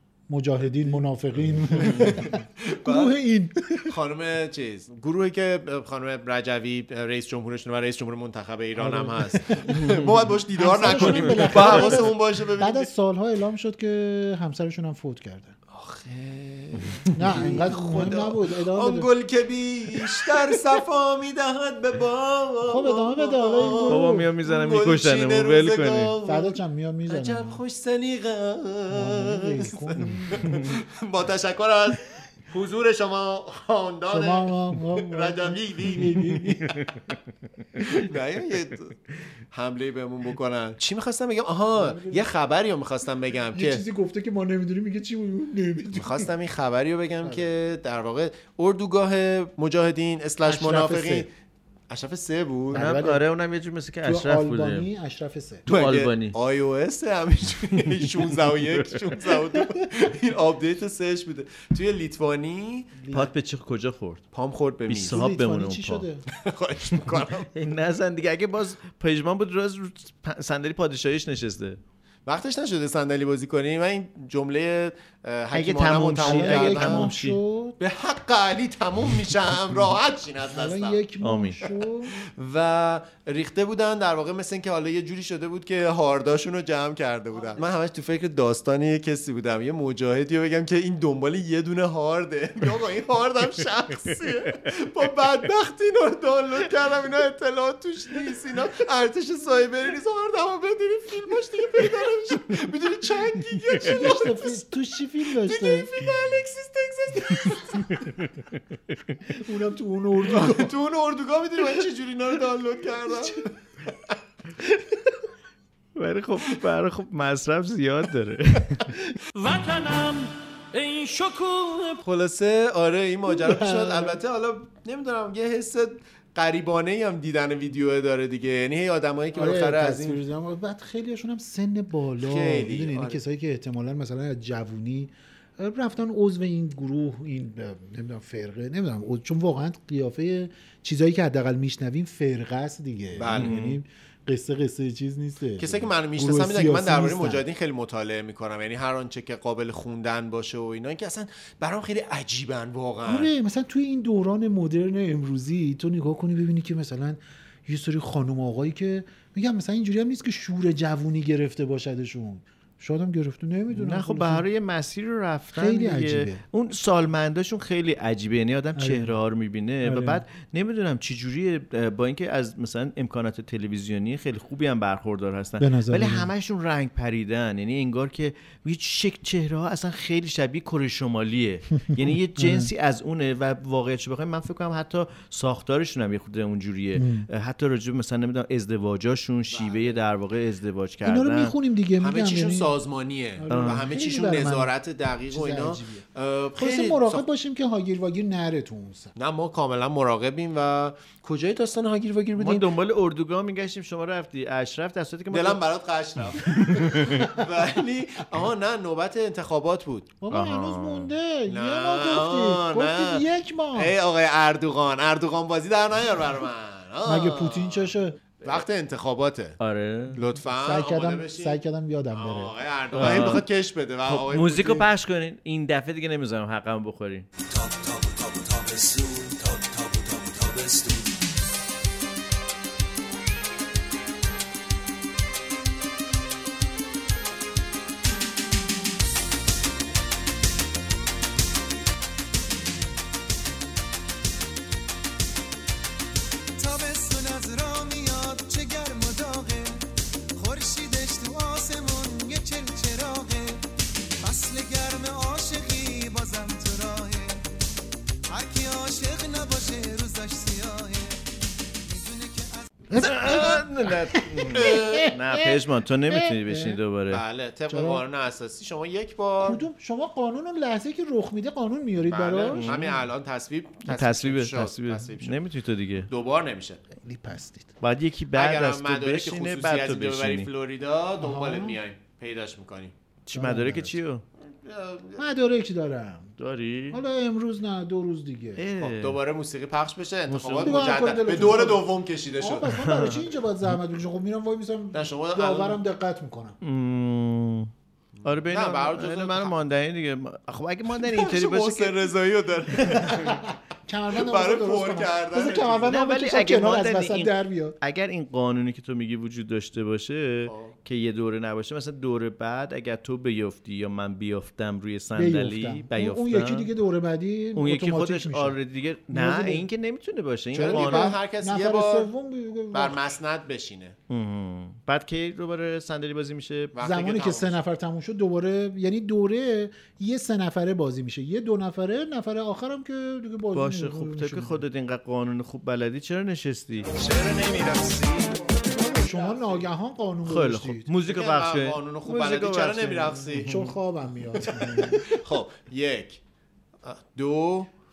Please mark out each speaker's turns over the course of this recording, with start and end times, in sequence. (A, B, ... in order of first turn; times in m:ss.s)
0:00.3-0:03.9 A
0:01.8-0:03.2 B
0:03.9-0:12.9 B
0:08.8-0:09.8 A
0:09.7-0:10.0 C
0:10.6-0:15.6 A
0:10.9-0:12.1 C
0:15.7-0:26.6 B
0:17.1-0:19.1 A
0:22.6-0:24.3 A
0:23.9-0:26.1 C
0:26.2-0:27.6 A
0:27.1-0:36.7 B
0:28.9-0:30.7 A
0:34.1-0:36.7 A
0:36.7-0:37.0 C
0:37.8-0:39.0 B
0:39.5-0:43.8 B
0:41.7-0:42.3 A
0:43.5-0:46.3 A
0:46.0-0:51.3 B
0:47.2-0:47.5 A
0:50.4-0:51.3 A
0:51.9-0:52.9 B
0:52.7-0:53.2 A
0:52.7-0:54.9 C
0:54.0-0:55.6 A
0:55.7-0:56.4 C
0:55.7-1:03.0 B
0:57.9-0:59.0 C
1:03.0-1:03.3 A
1:03.1-1:04.2 C
1:04.3-1:05.2 B
1:04.9-1:06.1 C
1:05.0-1:06.2 A
1:06.3-1:07.5 B
1:07.5-1:11.8 C
1:12.3-1:17.1 B
1:15.5-1:17.4 C
1:16.2-1:17.8 A
1:17.8-1:21.0 B
1:20.5-1:22.2 A
1:21.2-1:21.6 C
1:22.3-1:44.6 B
1:43.8-1:45.9 A
1:45.4-1:48.0 B
1:48.0-1:48.3 C
1:49.3-1:50.7 A
1:50.3-1:53.5 B
1:56.0-1:58.9 C
1:59.4-2:02.0 D
2:02.0-2:10.2 B
2:03.3-2:04.2 A
2:09.3-2:27.4 A
2:12.2-2:13.2 B
2:23.2-2:23.6 B
2:23.3-2:23.8 C
2:25.6-2:33.3 B
2:33.0-2:44.5 A
2:43.7-3:11.6 C
2:45.5-2:46.4 A
2:48.8-2:49.2 A
2:49.8-2:50.2 A
2:55.6-2:56.3 A
3:01.8-3:02.7 A
3:07.0-3:07.3 A
3:09.5-3:10.0 B
3:11.0-3:12.7 A
3:12.0-3:17.2 B
3:13.4-3:14.7 A
3:13.5-3:13.8 C
3:15.3-3:19.1 A
3:19.2-3:22.7 B
3:22.4-3:25.6 C
3:25.3-3:30.2 B
3:26.5-3:27.3 C
3:30.2-3:34.0 A
3:30.3-3:31.1 C
3:31.5-3:33.2 B
3:33.8-3:37.9 B
3:37.0-3:38.2 A
3:38.4-3:39.6 B
3:39.6-3:40.2 C
3:40.2-3:41.6 B
3:40.4-3:43.4 A
3:42.1-3:44.9 B
3:42.9-3:43.5 C
3:44.1-3:47.3 C
3:47.5-3:51.2 E
4:06.6-4:13.6 F
4:14.2-4:17.4 F
4:18.3-4:21.2 F
4:21.8-4:22.7 F
4:22.9-4:26.8 A
4:22.9-4:27.2 C
4:24.5-4:25.1 B
4:27.1-4:29.6 B
4:27.7-4:28.0 A
4:29.4-4:33.0 A
4:32.1-4:35.4 B
4:32.5-4:32.9 C
4:33.8-4:36.1 C
4:36.1-4:36.8 B
4:37.0-4:37.7 A
4:37.8-4:40.5 C
4:38.3-4:42.9 B
4:41.2-4:41.8 A
4:43.3-4:44.2 C
4:43.3-4:44.0 A
4:44.5-4:45.2 B
4:45.2-4:46.3 A
4:46.4-4:47.0 C
4:46.9-4:48.6 A
4:48.6-4:49.2 C
4:48.8-4:52.8 B
4:50.3-4:50.9 C
4:50.6-4:51.9 A
4:52.4-4:56.6 A
4:52.7-4:53.3 C
4:54.9-4:55.8 B
4:56.6-4:57.7 C
4:58.2-4:59.6 B
4:58.2-5:02.1 C
5:00.9-5:03.4 B
5:03.1-5:07.8 A
5:04.2-5:05.9 B
5:05.9-5:16.7 C
5:10.5-5:10.7 B
5:15.2-5:18.6 A
5:17.6-5:21.2 C
5:19.1-5:19.7 A
5:20.5-5:22.1 B
5:20.5-5:23.2 A
5:22.7-5:24.0 B
5:24.1-5:26.7 C
5:26.7-5:27.6 B
5:26.8-5:34.6 A
5:33.5-5:36.9 C
5:37.1-5:38.0 B
5:38.6-5:40.9 A
5:39.1-5:39.6 B
5:40.2-5:43.7 C
5:41.0-5:43.7 B
5:43.4-5:45.2 A
5:44.4-5:46.2 B
5:46.8-5:47.7 B